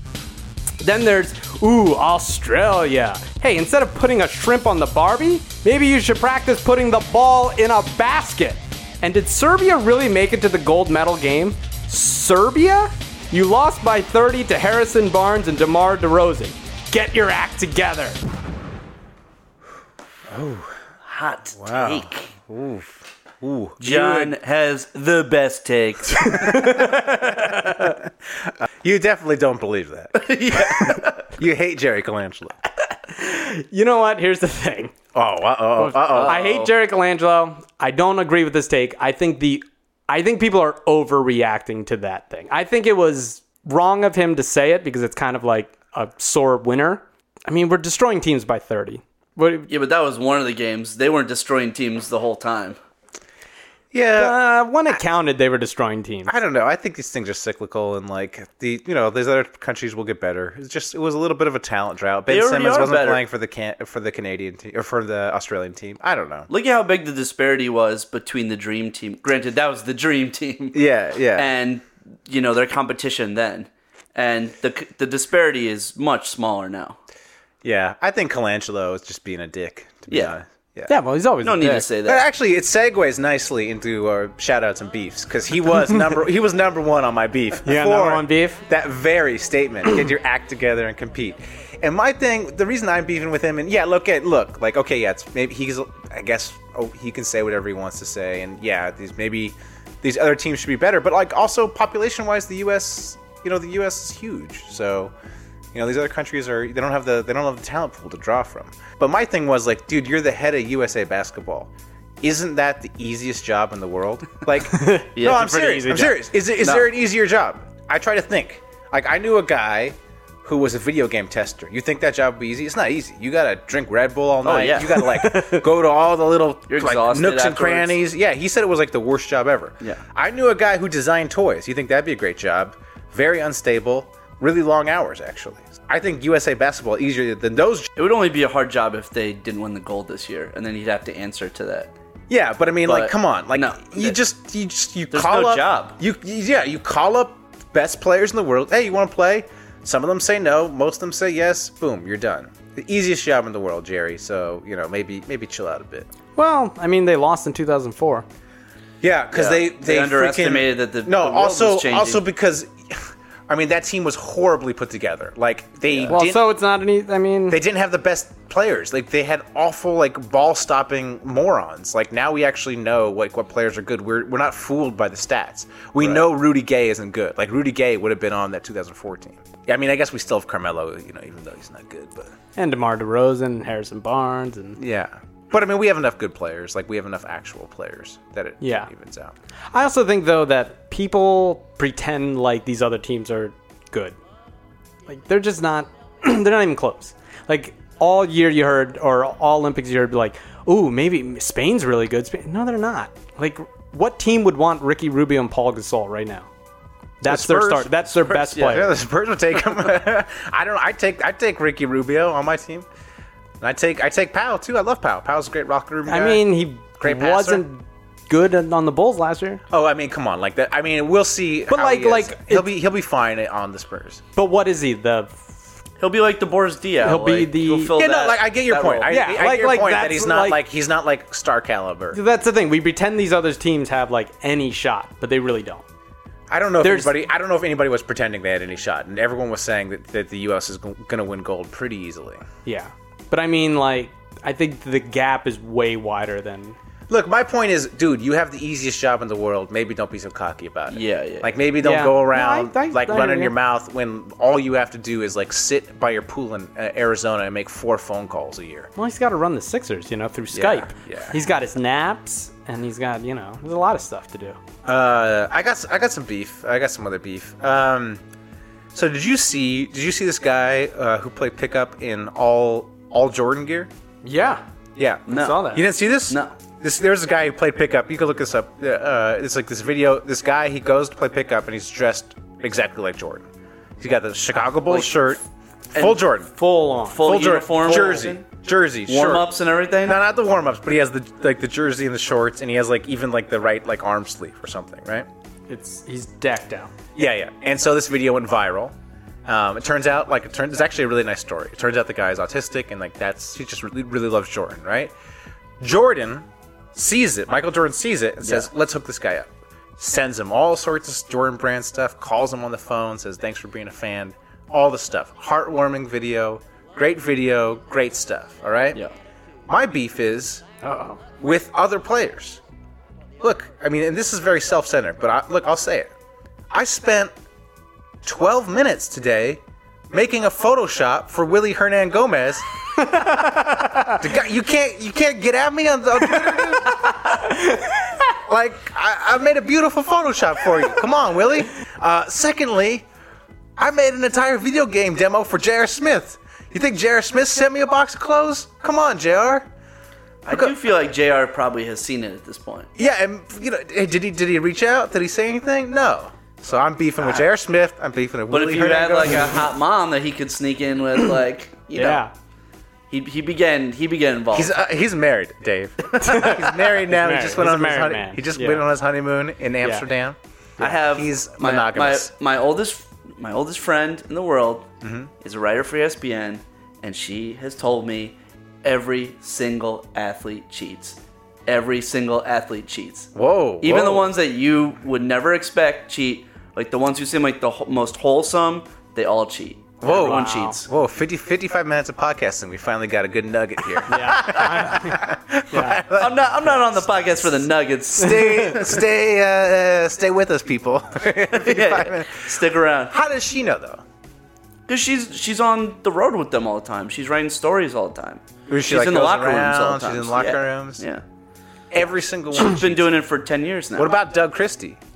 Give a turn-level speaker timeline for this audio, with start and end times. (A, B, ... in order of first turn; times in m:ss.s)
0:00.8-0:18.2 A
0:20.3-0:20.7 B
0:21.0-0:22.3 C
0:21.6-0:24.4 B
0:23.8-0:26.7 C
0:26.2-0:28.0 A
0:28.4-0:32.6 B
0:30.2-0:31.3 C
0:33.1-0:34.9 A
0:35.1-0:36.5 B
0:35.8-0:49.7 A
0:36.1-0:36.7 C
0:49.7-0:52.8 C
0:53.9-0:54.4 B
0:54.2-0:56.3 A
0:56.3-1:06.5 B
1:02.3-1:03.2 C
1:06.5-1:10.8 C
1:10.7-1:11.5 B
1:11.4-1:17.0 C
1:17.6-1:21.0 B
1:20.1-1:20.4 C
1:20.9-1:21.9 A
1:21.4-1:22.2 C
1:22.0-1:45.1 B
1:27.7-1:28.6 A
1:45.7-2:17.9 B
1:54.7-1:56.2 A
1:55.2-1:55.5 C
1:56.6-1:56.9 C
2:04.4-2:05.1 C
2:05.0-2:05.7 A
2:06.7-2:08.0 C
2:18.0-2:21.9 C
2:22.3-2:36.1 B
2:22.9-2:24.2 C
2:25.1-2:26.0 C
2:36.4-2:38.3 A
2:39.0-2:46.5 B
2:39.3-2:42.2 C
2:45.9-2:46.2 C
2:46.1-2:47.6 A
2:47.5-3:02.3 B
3:02.6-3:04.8 A
3:04.8-3:09.3 B
3:08.6-3:08.9 A
3:09.7-3:14.2 A
3:15.1-3:26.5 A
3:27.2-3:28.9 A
3:27.2-3:32.9 B
3:33.6-3:37.6 B
3:36.1-3:39.6 A
3:39.7-3:44.2 B
3:41.7-3:42.7 A
3:44.4-3:45.4 A
3:46.0-3:49.2 C
3:47.0-3:47.9 A
3:48.0-3:52.2 B
3:49.1-3:50.6 A
3:52.1-3:55.8 A
3:56.5-4:02.4 B
3:56.8-3:57.2 A
4:02.6-4:06.8 A
4:07.1-4:18.9 B
4:10.9-4:11.6 C
4:11.8-4:13.5 A
4:19.0-4:24.6 A
4:20.5-4:21.4 B
4:24.8-4:28.2 B
4:28.9-4:33.9 B
4:34.2-4:34.6 A
4:35.0-4:46.5 B
4:35.3-4:35.7 C
4:35.3-4:35.8 A
4:36.3-4:36.5 C
4:44.9-4:45.2 C
4:45.9-4:46.2 C
4:46.6-4:47.3 A
4:47.0-4:48.4 C
4:47.2-4:49.5 B
4:49.1-4:50.2 C
4:50.0-4:55.3 B
4:55.7-4:56.9 A
4:57.2-5:05.1 B
5:05.8-5:19.0 B
5:19.7-5:20.6 B
5:20.8-5:21.2 A
5:21.4-5:22.6 B
5:23.4-5:26.1 B
5:26.7-5:27.3 B
5:28.2-5:32.7 B
5:33.0-5:34.2 A
5:33.3-5:37.1 B
5:36.3-5:38.2 A
5:38.5-5:43.1 B
5:43.8-5:49.7 B
5:50.4-5:52.9 C
5:50.5-5:50.7 B
5:53.0-5:59.7 B
5:57.2-5:57.5 C
5:58.5-6:02.2 C
6:02.0-6:02.3 A
6:03.1-6:04.8 C
6:04.5-6:12.3 B
6:06.1-6:06.5 C
6:06.2-6:08.8 A
6:10.8-6:14.9 C
6:15.0-6:15.3 B
6:15.4-6:23.3 C
6:23.4-6:24.3 B
6:23.8-6:30.8 C
6:30.0-6:37.5 B
6:30.1-6:30.8 A
6:34.1-6:36.0 A
6:36.2-6:38.9 C
6:38.1-6:44.0 B
6:41.5-6:43.2 C
6:44.9-6:51.2 C
6:48.7-6:51.1 B
6:51.9-6:53.2 B
6:52.6-6:54.1 C
6:54.0-6:55.0 B